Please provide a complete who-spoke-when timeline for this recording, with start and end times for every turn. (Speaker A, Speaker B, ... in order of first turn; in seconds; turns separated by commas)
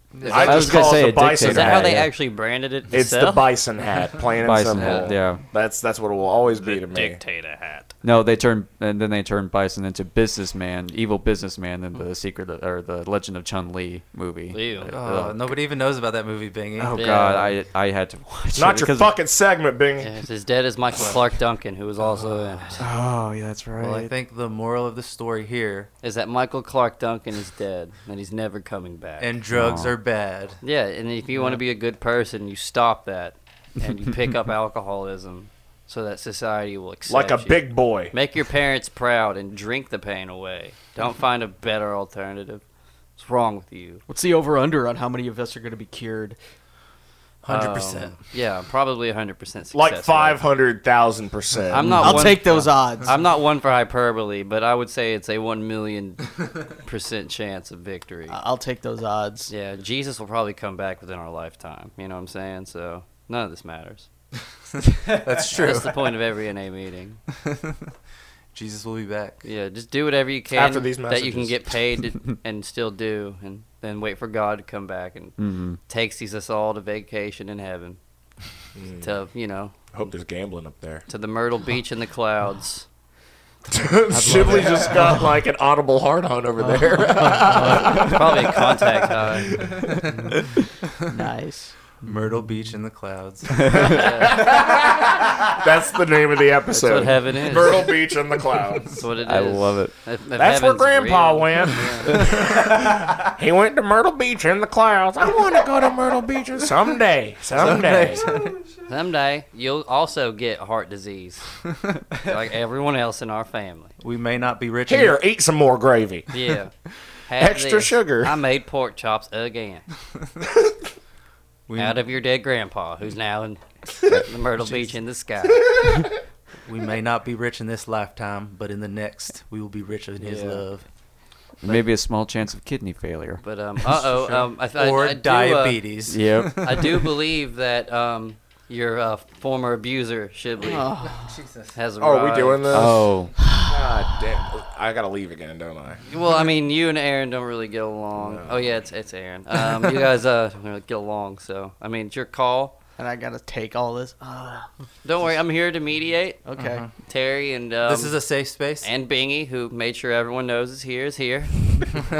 Speaker A: 0.1-0.7, Speaker B: 0.2-3.5, Speaker C: 0.3-1.9, Speaker D: 0.3-2.1, Speaker C: 2.9-7.2, Speaker D: 4.4-5.4, Speaker B: 4.7-5.1, Speaker B: 6.6-7.9, Speaker D: 8.0-15.6, Speaker B: 14.5-14.9, Speaker A: 14.8-17.0, Speaker D: 16.8-19.1, Speaker B: 16.9-17.5, Speaker C: 18.5-20.1, Speaker B: 20.0-22.8, Speaker A: 22.0-22.5, Speaker D: 22.8-24.1, Speaker A: 23.8-25.9, Speaker B: 26.0-29.3, Speaker A: 29.2-30.6, Speaker D: 29.5-29.9, Speaker B: 30.6-42.6, Speaker A: 31.3-31.6, Speaker C: 37.1-38.1, Speaker B: 43.2-44.0, Speaker E: 44.1-46.4, Speaker A: 47.4-48.2, Speaker B: 47.5-50.4, Speaker C: 49.7-52.4, Speaker B: 51.7-58.4, Speaker A: 51.9-53.1, Speaker E: 52.0-53.1, Speaker E: 58.3-59.5, Speaker B: 59.5-64.1, Speaker A: 64.8-66.2, Speaker B: 65.4-67.2, Speaker A: 68.5-69.4, Speaker B: 69.4-78.0, Speaker C: 70.5-71.7, Speaker D: 75.4-75.8, Speaker C: 78.7-79.1, Speaker B: 79.0-79.8, Speaker C: 79.9-81.0, Speaker B: 81.1-82.8, Speaker C: 83.7-88.5, Speaker E: 84.1-85.1, Speaker A: 84.1-85.2, Speaker E: 86.6-88.2, Speaker B: 87.9-89.6, Speaker E: 91.1-91.7, Speaker A: 92.0-93.5, Speaker C: 93.8-99.0, Speaker B: 93.9-94.5, Speaker B: 96.7-97.9, Speaker B: 98.9-102.3, Speaker D: 99.2-99.9, Speaker C: 100.3-108.3, Speaker A: 107.5-108.7, Speaker B: 108.9-111.5, Speaker B: 112.2-113.9, Speaker A: 114.0-115.2, Speaker C: 114.9-116.3, Speaker B: 116.3-116.7, Speaker B: 117.3-119.8, Speaker C: 117.4-118.3, Speaker A: 121.7-122.0, Speaker B: 121.8-126.0, Speaker A: 124.6-125.0, Speaker A: 126.7-130.8, Speaker B: 130.2-130.6, Speaker D: 131.6-133.4, Speaker B: 133.4-135.9, Speaker A: 134.1-136.9, Speaker D: 136.1-136.8, Speaker B: 136.6-140.9, Speaker E: 140.6-141.4, Speaker A: 141.0-141.7, Speaker B: 141.7-142.7, Speaker C: 142.0-146.0, Speaker D: 142.7-143.3, Speaker B: 146.1-152.7, Speaker C: 148.2-148.8, Speaker E: 153.0-154.7, Speaker B: 155.0-156.4, Speaker E: 156.4-156.8, Speaker A: 156.6-156.9, Speaker B: 157.0-161.9, Speaker A: 157.8-158.9